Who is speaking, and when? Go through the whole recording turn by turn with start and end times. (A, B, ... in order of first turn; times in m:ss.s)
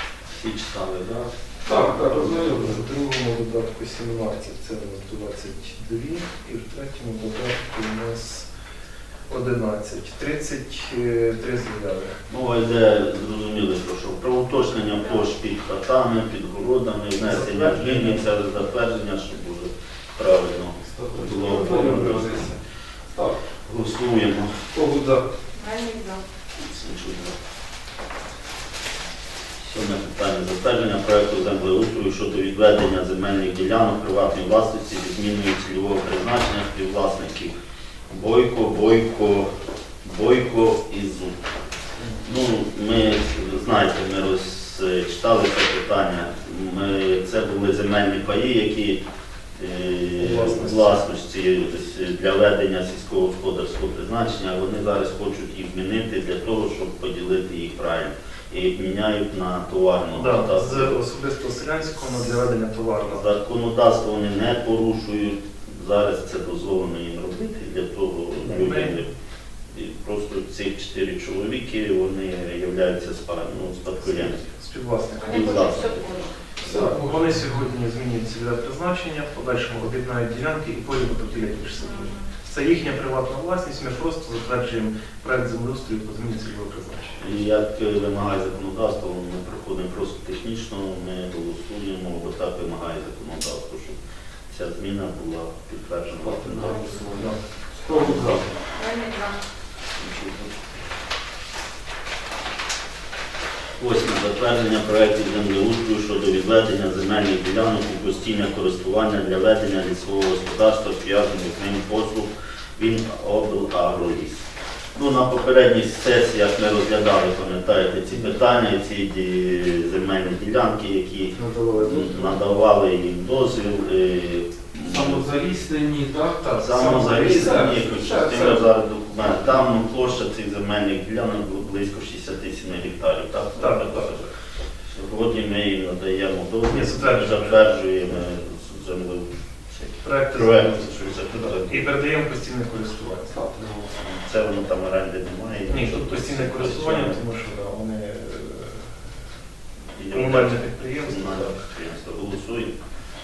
0:00.3-0:01.3 A
0:01.6-0:02.8 B
0:01.7-0:08.5 C
0:09.3-0:12.2 C
0:12.3-0:22.6 A
0:17.2-0:18.2 C
0:20.8-0:23.4 B
0:23.6-0:24.6 A
0:24.7-0:25.3 B
0:25.5-0:26.2 D
0:26.6-0:27.4 A
0:29.6-0:37.6 A
0:38.1-0:39.5 A
0:40.0-0:41.4 A
0:42.2-0:49.0 A
0:49.6-1:00.9 A
0:50.2-0:51.0 C
1:00.1-1:03.2 C
1:03.1-1:09.1 A
1:08.4-1:09.0 C
1:09.7-1:14.4 A
1:14.0-1:15.6 C
1:15.2-1:16.4 D
1:15.2-1:16.9 A
1:16.6-1:17.4 B
1:16.6-1:27.2 C
1:21.8-1:22.3 D
1:27.2-1:38.5 A
1:36.2-1:37.3 B
1:37.1-1:37.4 C
1:37.8-1:38.4 B
1:38.7-1:39.4 D
1:40.0-1:40.6 A
1:43.8-2:05.3 A
2:01.6-2:01.8 C
2:04.8-2:08.6 B
2:06.4-2:07.8 C
2:06.6-2:14.2 A
2:09.2-2:09.6 B
2:13.6-2:14.3 C
2:14.9-2:21.9 A
2:16.7-2:17.6 C
2:20.0-2:23.4 C
2:23.3-2:24.0 B
2:23.9-2:27.2 A
2:25.7-2:29.0 C
2:30.0-2:32.8 A
2:30.1-2:31.6 C